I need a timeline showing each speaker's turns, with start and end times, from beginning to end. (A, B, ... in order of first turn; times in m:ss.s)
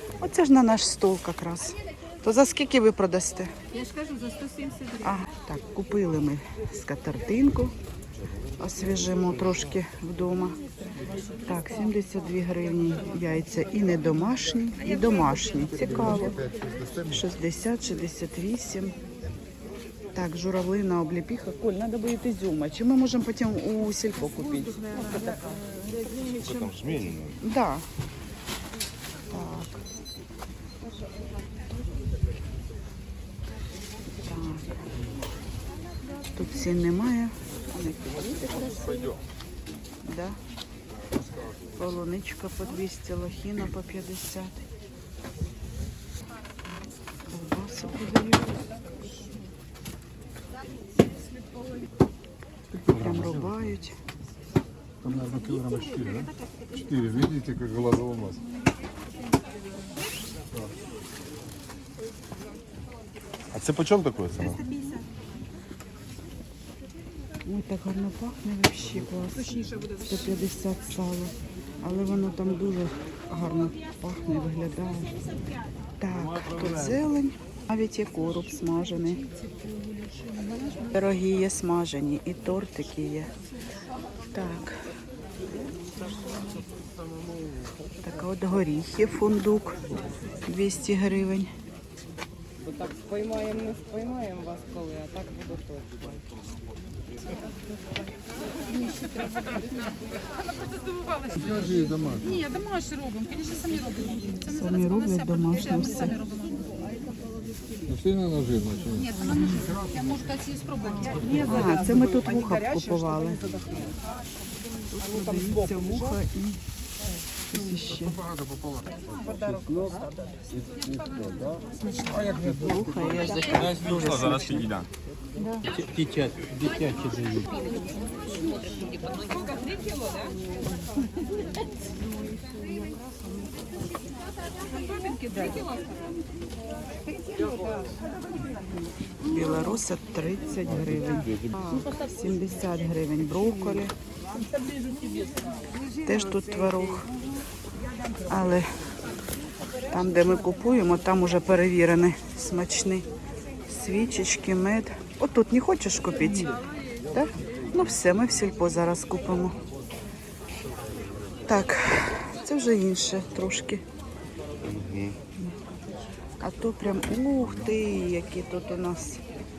0:00.2-0:03.5 A
0:03.7-0:05.0 B
0:05.0-0:07.7 A
0:08.6-0:10.6 A
0:11.4-0:16.5 A
0:17.0-0:19.0 A
0:20.1-0:25.5 A
0:25.5-0:26.5 B
0:26.3-0:27.4 C
0:27.4-0:27.8 A
0:29.3-0:29.8 A
0:34.2-0:34.8 A
0:36.3-0:39.2 A
0:40.0-0:40.4 A
0:41.7-0:44.6 A
0:47.3-0:48.6 A
0:52.7-0:54.0 A
0:55.0-0:56.3 D
0:56.9-0:58.4 D
1:03.5-1:04.7 C
1:07.4-1:15.2 A
1:16.0-1:19.3 A
1:20.8-1:23.3 A
1:24.3-1:24.9 A
1:26.0-1:26.4 A
1:28.0-1:29.8 A
1:30.4-1:31.5 A
1:32.7-1:36.0 E
1:38.8-1:39.5 B
1:40.6-1:44.4 B
1:41.7-1:42.3 D
1:44.4-1:46.2 A
1:46.2-1:46.9 B
1:47.9-1:49.1 D
1:49.2-1:49.8 A
1:49.3-1:51.3 B
1:50.8-1:53.5 A
1:54.9-1:56.6 A
1:57.5-1:58.3 A
1:59.3-2:00.0 C
2:00.9-2:01.6 C
2:02.1-2:04.8 A
2:05.7-2:07.5 E
2:06.6-2:07.3 C
2:07.4-2:10.2 B
2:12.5-2:13.0 B
2:14.9-2:15.8 B
2:19.2-2:23.9 A
2:26.0-2:27.1 A
2:28.2-2:28.7 A
2:29.8-2:33.1 A
2:33.7-2:39.6 A
2:41.4-2:43.8 A
2:44.6-2:45.2 C
2:46.4-2:49.2 A